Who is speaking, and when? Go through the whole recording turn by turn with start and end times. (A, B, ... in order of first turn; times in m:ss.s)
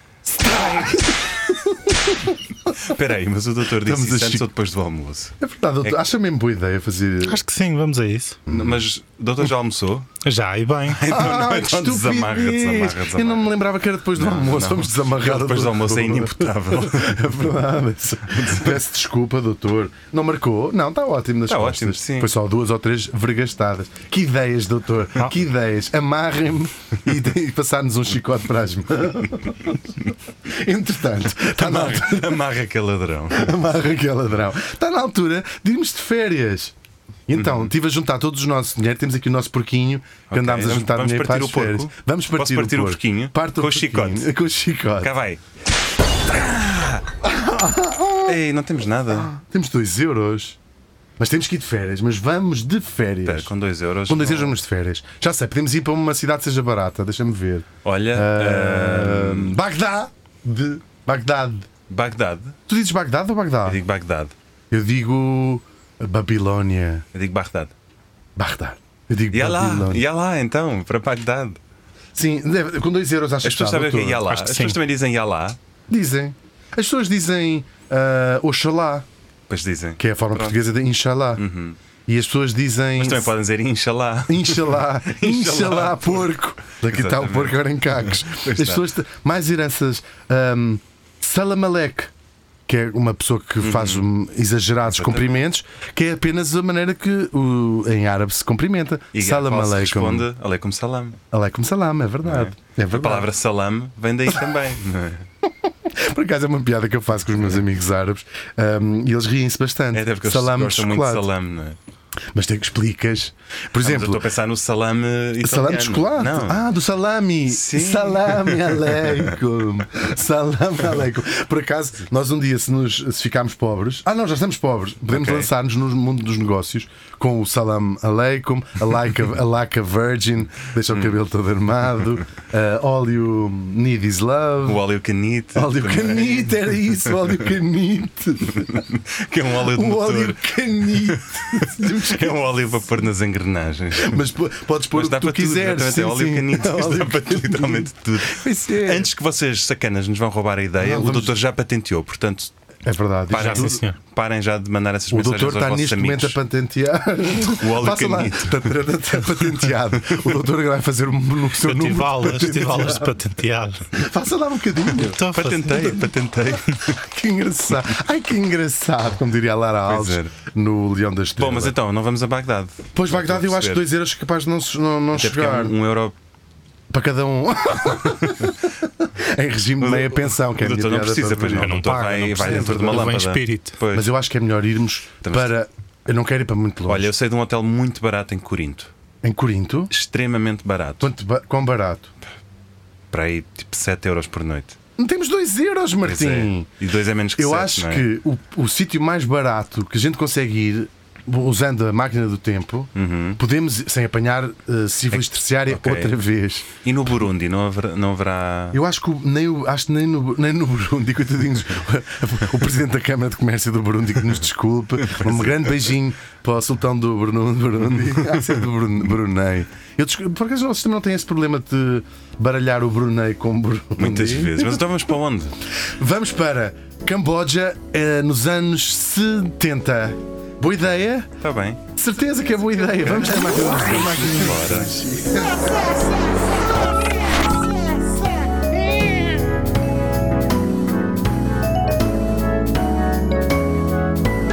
0:00.2-0:02.7 A
0:02.8-0:06.0 B
0:03.8-0:04.5 A
0:05.4-0:07.4 A
0:07.2-0:08.4 C
0:08.5-0:10.1 B
0:10.2-0:11.0 C
0:10.9-0:13.5 B
0:11.0-0:29.9 A
0:14.1-0:17.3 B
0:18.3-0:18.8 B
0:21.5-0:22.3 B
0:30.5-0:32.4 A
0:31.5-0:33.6 B
0:33.3-0:36.7 A
0:37.3-0:45.1 A
0:37.4-0:37.7 B
0:40.3-0:44.3 B
0:45.0-0:45.4 B
0:46.2-0:47.1 B
0:47.2-0:48.4 A
0:48.3-0:49.3 B
0:49.1-0:50.6 A
0:51.2-0:53.5 A
0:53.2-0:54.6 B
0:54.1-1:01.7 A
0:57.8-0:59.6 B
1:01.9-1:02.6 B
1:02.7-1:03.8 A
1:03.6-1:04.3 B
1:04.7-1:07.0 A
1:07.1-1:07.7 B
1:08.4-1:10.0 A
1:09.3-1:11.6 B
1:12.1-1:14.3 A
1:13.4-1:15.6 B
1:14.3-1:14.8 C
1:15.9-1:19.1 A
1:19.5-1:20.6 B
1:20.0-1:21.4 A
1:21.4-1:21.8 B
1:22.1-1:23.3 A
1:23.0-1:26.3 B
1:24.3-1:32.1 A
1:26.8-1:28.9 B
1:32.7-1:40.3 A
1:33.6-1:34.1 B
1:34.9-1:35.4 B
1:39.1-1:41.2 B
1:41.3-1:43.3 A
1:42.2-1:45.2 B
1:45.9-1:51.3 A
1:49.9-1:51.8 B
1:52.3-1:54.2 A
1:53.8-1:56.6 B
1:55.4-2:14.8 A
1:57.5-1:59.3 B
2:05.1-2:05.5 B
2:14.6-2:17.3 B
2:15.5-2:18.8 A
2:18.5-2:24.2 B
2:19.6-2:22.3 A
2:23.9-2:29.1 A
2:24.9-2:32.5 B
2:30.8-2:31.4 A
2:32.8-2:33.8 A
2:33.3-2:36.4 B
2:33.3-2:33.9 C
2:35.1-2:43.1 A
2:37.5-2:38.8 B
2:41.6-2:43.9 C
2:43.9-2:45.2 A
2:44.9-2:46.0 C
2:45.3-2:47.0 B
2:46.8-2:51.7 A
2:49.8-2:50.3 B
2:51.4-2:53.8 B
2:52.9-2:55.7 A
2:55.1-2:56.1 B
2:56.9-3:03.2 A
2:59.8-3:04.1 B
3:01.5-3:03.8 C
3:03.9-3:07.1 A
3:05.2-3:05.5 B
3:06.8-3:08.9 B
3:09.2-3:09.9 A
3:09.9-3:11.1 B
3:11.0-3:12.1 A
3:13.1-3:14.8 B
3:15.0-3:16.7 A
3:16.0-3:18.1 B
3:17.4-3:26.7 A
3:22.9-3:23.4 B
3:25.1-3:26.2 B
3:26.8-3:28.8 B
3:28.7-3:44.8 A
3:35.0-3:35.8 B
3:44.0-3:45.6 B
3:46.0-3:51.3 A
3:51.4-3:51.8 B
3:51.9-3:56.1 A
3:53.0-3:55.0 B